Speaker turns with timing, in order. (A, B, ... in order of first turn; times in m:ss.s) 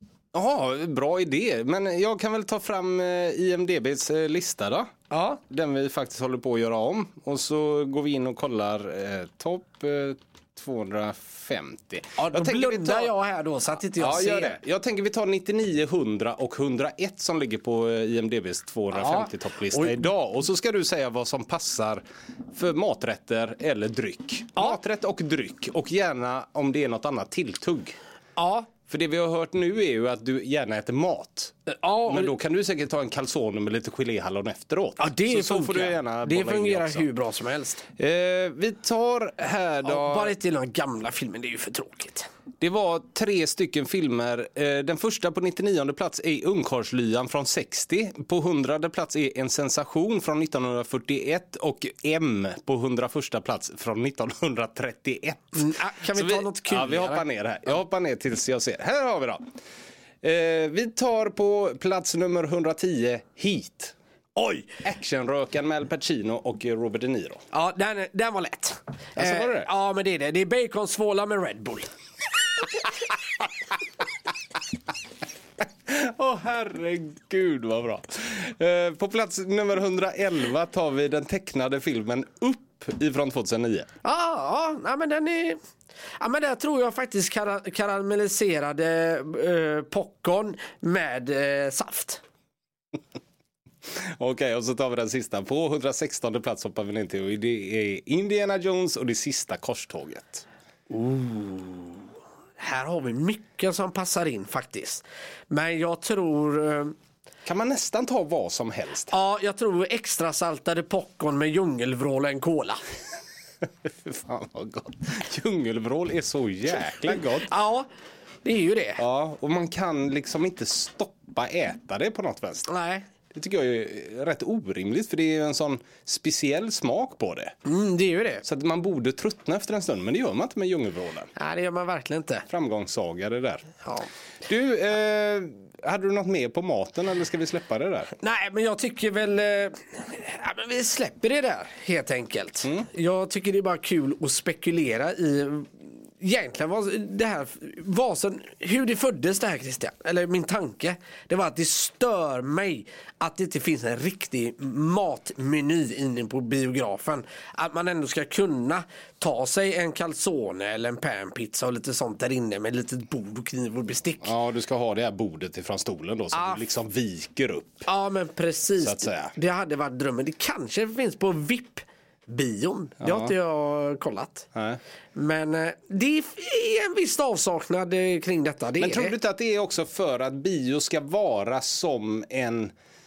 0:00.3-0:04.9 A
0:05.1-0:05.4 B
0:05.5-0:13.1 A
0:12.2-0:14.6 B
0:14.0-0:28.0 A
0:18.9-0:20.0 B
0:28.4-0:28.7 B
0:28.8-0:37.0 A
0:31.7-0:32.3 B
0:35.0-0:37.8 B
0:38.0-0:40.3 A
0:39.8-0:42.3 B
0:42.6-0:59.4 A
0:55.5-0:57.2 B
1:00.2-1:03.9 A
1:04.4-1:04.7 B
1:04.8-1:07.4 A
1:07.5-1:11.9 B
1:09.2-1:09.7 A
1:15.8-1:23.9 A
1:24.0-1:25.6 B
1:26.2-1:32.2 B
1:33.9-1:40.4 A
1:40.9-1:42.1 B
1:42.6-1:46.9 B
1:47.4-1:49.1 A
1:49.1-1:52.8 B
1:53.8-1:57.5 A
1:57.1-1:57.9 B
1:58.4-1:59.0 B
1:59.0-2:02.7 A
2:02.7-2:03.0 B
2:03.3-2:07.5 A
2:07.6-2:08.4 B
2:08.4-2:11.3 A
2:11.4-2:12.4 B
2:12.5-2:13.7 A
2:14.4-2:18.1 A
2:18.2-2:44.3 B
2:44.2-2:47.8 A
2:46.3-2:46.6 B
2:47.8-2:54.5 B
2:48.8-2:49.3 A
2:53.0-2:53.3 A
2:54.5-2:54.8 A
2:55.1-2:59.1 B
2:58.8-3:02.7 A